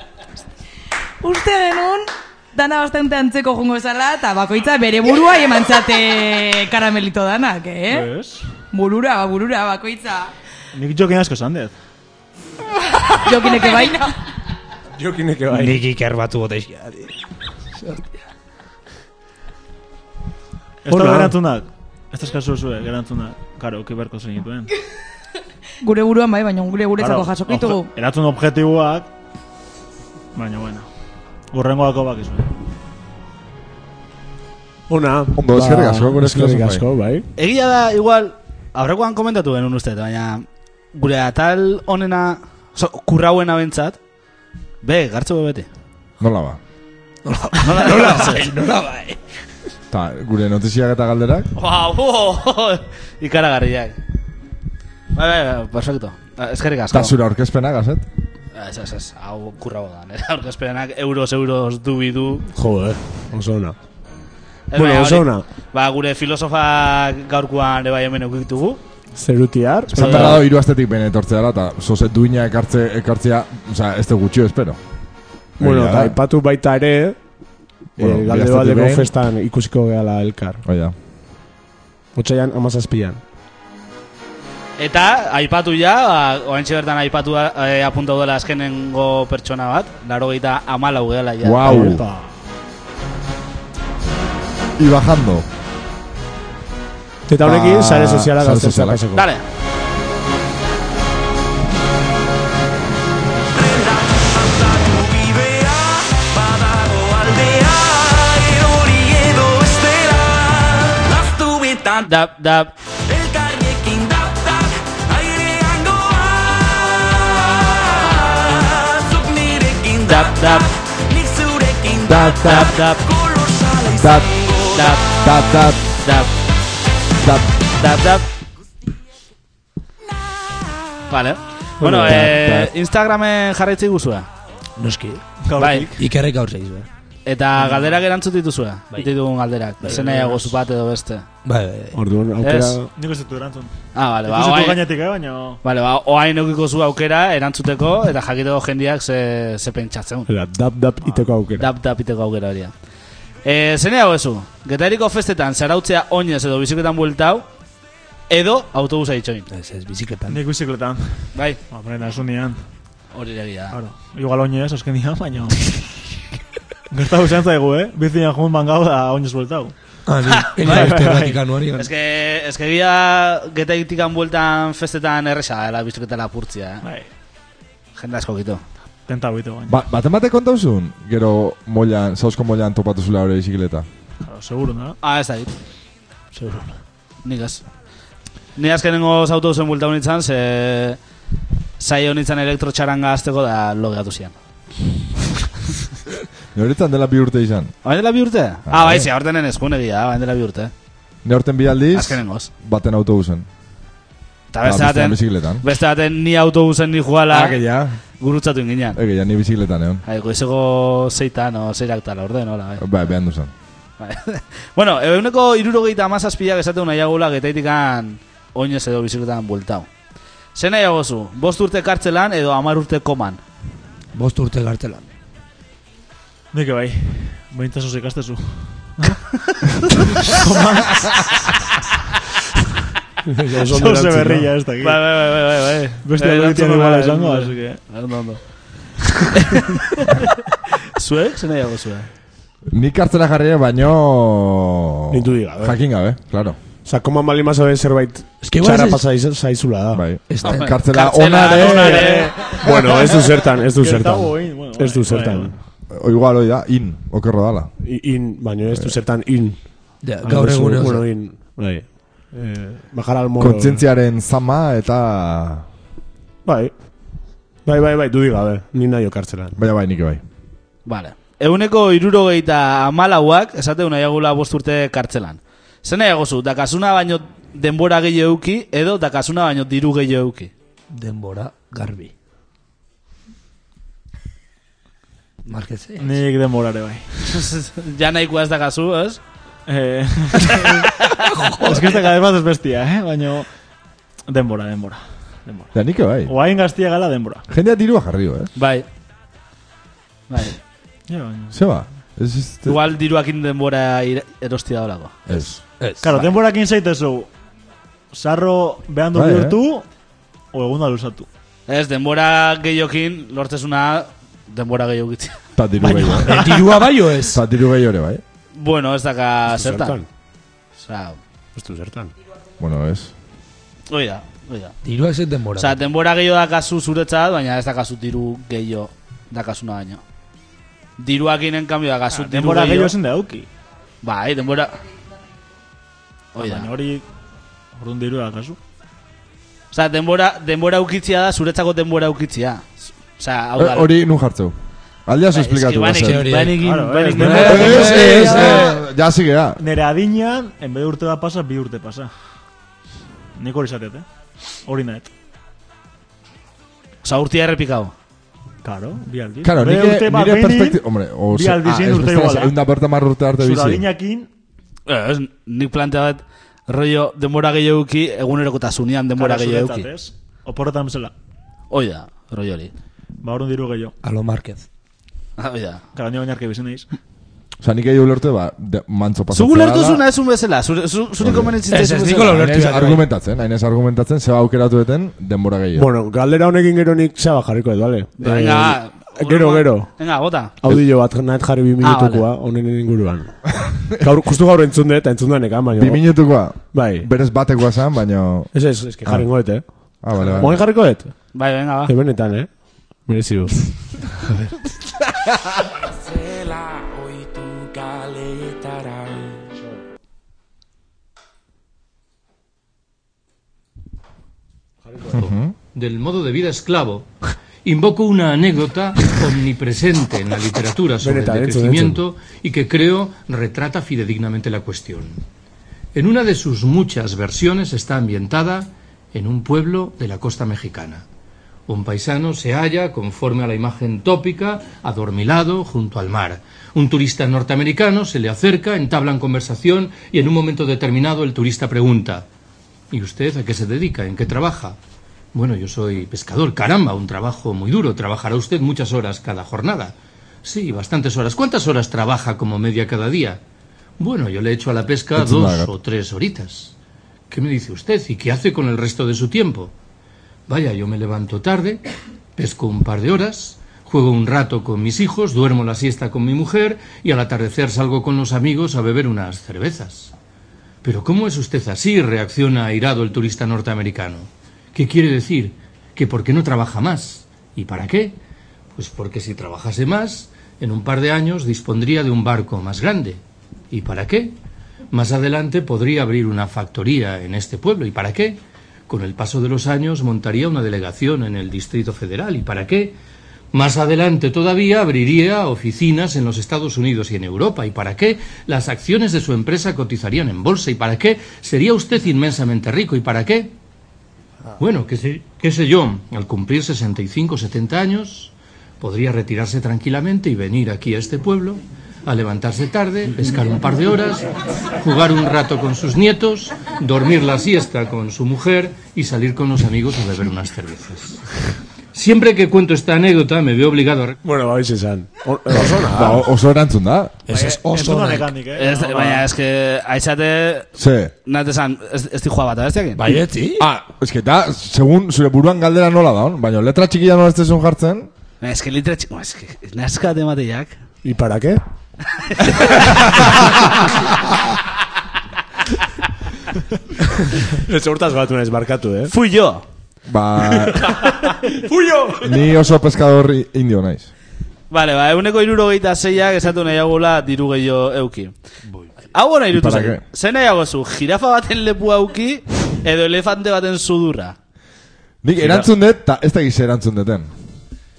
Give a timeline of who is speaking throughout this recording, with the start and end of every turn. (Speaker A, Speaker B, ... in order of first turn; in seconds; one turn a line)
Speaker A: 1.2-8.1
Speaker B: 7.9-8.4
Speaker A: 8.7-10.3
Speaker B: 10.7-11.7
Speaker A: 13.2-14.1
Speaker C: 15.0-15.8
Speaker D: 15.5-17.1
Speaker D: 17.8-18.1
Speaker B: 20.8-24.7
Speaker C: 20.9-21.3
Speaker A: 25.8-27.9
Speaker B: 27.0-29.1
Speaker B: 30.3-30.9
Speaker B: 31.5-32.5
Speaker C: 34.9-37.2
Speaker E: 35.3-36.8
Speaker F: 37.4-44.0
Speaker F: 44.8-45.7
Speaker E: 46.2-46.6
Speaker D: 47.2-49.2
Speaker F: 47.6-48.4
Speaker E: 49.9-51.5
Speaker F: 51.5-54.0
Speaker F: 55.1-57.1
Speaker E: 56.9-58.0
Speaker F: 58.5-62.5
Speaker C: 62.5-63.8
Speaker F: 64.7-68.8
Speaker C: 64.7-65.5
Speaker C: 69.2-70.5
Speaker F: 69.9-70.4
Speaker E: 69.9-74.8
Speaker E: 75.6-76.2
Speaker C: 75.6-77.2
Speaker C: 78.0-80.6
Speaker E: 78.0-79.1
Speaker E: 80.6-80.9
Speaker C: 82.1-83.2
Speaker F: 84.8-92.0
Speaker E: 91.4-92.0
Speaker C: 91.7-92.2
Speaker E: 94.8-95.5
Speaker C: 97.3-99.2
Speaker E: 97.4-99.0
Speaker F: 99.1-99.4
Speaker G: 103.5-112.1
Speaker F: 112.0-112.7
Speaker G: 113.1-125.2
Speaker F: 120.1-120.7
Speaker E: 122.1-122.7
Speaker F: 122.4-123.0
Speaker E: 124.0-124.3
Speaker F: 124.7-125.1
Speaker E: 125.2-125.8
Speaker F: 126.0-126.3
Speaker E: 127.2-127.5
Speaker F: 127.8-128.2
Speaker F: 131.1-134.3
Speaker C: 131.9-132.1
Speaker D: 132.0-132.3
Speaker E: 132.1-132.7
Speaker D: 134.8-135.2
Speaker B: 135.4-136.0
Speaker F: 135.6-135.8
Speaker D: 136.0-136.9
Speaker F: 137.2-141.2
Speaker B: 137.6-138.0
Speaker B: 139.8-140.6
Speaker D: 141.4-142.0
Speaker C: 141.9-142.9
Speaker F: 142.4-142.8
Speaker B: 142.9-143.7
Speaker F: 143.9-144.8
Speaker B: 144.2-145.6
Speaker F: 145.6-150.3
Speaker C: 150.3-151.7
Speaker F: 151.6-152.7
Speaker F: 153.4-157.5
Speaker F: 158.3-159.5
Speaker D: 159.5-160.4
Speaker B: 160.3-162.6
Speaker F: 161.3-161.6
Speaker F: 163.1-163.8
Speaker B: 163.7-165.8
Speaker B: 166.9-169.7
Speaker D: 170.1-171.9
Speaker B: 170.6-171.4
Speaker F: 171.8-176.8
Speaker B: 176.8-177.1
Speaker F: 177.9-178.6
Speaker B: 179.1-179.8
Speaker E: 179.7-183.8
Speaker B: 184.2-185.0
Speaker F: 185.0-185.5
Speaker B: 186.3-186.7
Speaker F: 187.2-187.7
Speaker F: 188.6-191.0
Speaker F: 191.8-194.3
Speaker E: 196.5-197.7
Speaker F: 197.8-200.7
Speaker E: 198.7-199.1
Speaker E: 201.2-203.4
Speaker F: 201.9-202.5
Speaker F: 204.5-207.6
Speaker E: 204.6-205.6
Speaker E: 207.3-208.0
Speaker F: 208.2-209.0
Speaker E: 208.9-210.0
Speaker F: 210.0-212.8
Speaker E: 212.8-213.5
Speaker F: 214.0-219.9
Speaker F: 220.5-223.4
Speaker D: 224.1-225.1
Speaker B: 226.5-231.5
Speaker C: 233.3-234.5
Speaker B: 233.6-235.1
Speaker F: 234.8-238.4
Speaker B: 236.0-237.8
Speaker F: 239.3-240.2
Speaker F: 240.9-242.1
Speaker E: 242.7-246.6
Speaker C: 245.1-245.8
Speaker C: 246.8-250.1
Speaker D: 248.4-249.0
Speaker E: 249.9-252.2
Speaker D: 250.3-250.7
Speaker F: 250.4-252.6
Speaker B: 251.4-255.5
Speaker C: 252.6-255.5
Speaker E: 255.9-257.7
Speaker C: 257.8-259.6
Speaker E: 258.7-258.9
Speaker D: 260.0-261.1
Speaker C: 260.2-263.8
Speaker E: 263.4-265.6
Speaker C: 266.4-266.7
Speaker C: 267.6-269.6
Speaker E: 269.6-270.2
Speaker F: 270.9-280.5
Speaker D: 280.9-282.1
Speaker D: 285.4-286.2
Speaker B: 286.0-287.1
Speaker F: 287.3-289.2
Speaker B: 289.7-290.9
Speaker B: 291.6-293.5
Speaker B: 294.3-295.7
Speaker E: 295.7-296.3
Speaker B: 296.2-297.4
Speaker E: 297.5-298.5
Speaker F: 298.6-298.9
Speaker F: 300.3-300.6
Speaker B: 301.1-301.5
Speaker E: 301.5-302.8
Speaker F: 302.6-305.3
Speaker E: 305.3-305.6
Speaker D: 305.7-306.1
Speaker B: 306.0-307.3
Speaker B: 308.1-309.8
Speaker E: 309.1-309.6
Speaker B: 310.5-311.3
Speaker F: 311.7-315.4
Speaker E: 315.6-316.4
Speaker B: 315.8-316.8
Speaker D: 316.2-317.4
Speaker E: 317.3-318.2
Speaker F: 318.5-320.0
Speaker C: 319.5-320.1
Speaker F: 320.8-321.2
Speaker C: 321.5-322.1
Speaker E: 322.6-323.1
Speaker F: 323.9-324.8
Speaker D: 324.8-325.8
Speaker F: 325.6-330.0
Speaker F: 331.0-332.9
Speaker B: 332.1-333.5
Speaker F: 334.0-334.8
Speaker F: 336.3-336.7
Speaker B: 336.4-337.1
Speaker B: 337.8-338.6
Speaker F: 339.7-343.9
Speaker E: 343.6-344.5
Speaker E: 345.1-346.3
Speaker F: 345.3-348.6
Speaker D: 346.0-348.7
Speaker B: 346.6-348.6
Speaker E: 347.4-349.6
Speaker B: 349.6-352.1
Speaker B: 353.4-354.1
Speaker B: 354.6-355.1
Speaker F: 357.0-357.9
Speaker B: 358.6-362.5
Speaker E: 359.4-363.8
Speaker B: 363.4-364.3
Speaker F: 364.9-369.9
Speaker B: 369.1-371.1
Speaker F: 371.7-372.7
Speaker B: 373.2-373.9
Speaker D: 374.0-374.6
Speaker F: 375.4-375.8
Speaker B: 375.9-376.9
Speaker E: 377.6-380.0
Speaker F: 379.3-382.8
Speaker E: 381.2-381.6
Speaker D: 381.7-383.0
Speaker E: 382.5-385.9
Speaker C: 385.8-389.9
Speaker F: 388.2-390.5
Speaker C: 390.6-396.0
Speaker F: 391.8-392.3
Speaker E: 395.8-398.5
Speaker C: 396.7-397.1
Speaker C: 398.5-401.1
Speaker E: 400.0-400.6
Speaker F: 401.3-401.9
Speaker C: 401.9-402.5
Speaker C: 403.0-403.7
Speaker G: 405.9-409.4
Speaker C: 414.9-415.2
Speaker E: 415.1-415.5
Speaker H: 415.7-417.1
Speaker H: 417.6-425.2
Speaker C: 421.0-422.0
Speaker H: 425.9-431.0
Speaker H: 431.7-442.3
Speaker H: 442.9-444.8
Speaker H: 445.3-453.4
Speaker H: 454.0-456.7
Speaker E: 455.1-455.7
Speaker H: 457.3-459.7
Speaker H: 460.5-470.1
Speaker H: 470.8-478.2
Speaker H: 478.7-484.4
Speaker H: 484.9-492.9
Speaker H: 493.5-503.6
Speaker H: 504.6-521.2
Speaker H: 521.9-524.2
Speaker C: 524.2-526.3
Speaker E: 525.5-527.2
Speaker D: 527.3-528.3
Speaker B: 527.3-529.3
Speaker F: 528.6-530.7
Speaker E: 530.8-531.1
Speaker F: 531.2-533.1
Speaker D: 533.0-533.7
Speaker E: 533.6-538.1
Speaker F: 538.4-540.7
Speaker C: 541.0-541.6
Speaker F: 542.3-543.0
Speaker E: 542.6-543.3
Speaker C: 547.5-549.1
Speaker F: 549.1-549.6
Speaker E: 550.1-550.9
Speaker D: 551.6-552.2
Speaker E: 552.2-554.1
Speaker F: 554.7-558.3
Speaker F: 559.1-564.3
Speaker E: 559.5-560.0
Speaker E: 565.2-567.3
Speaker B: 565.4-565.7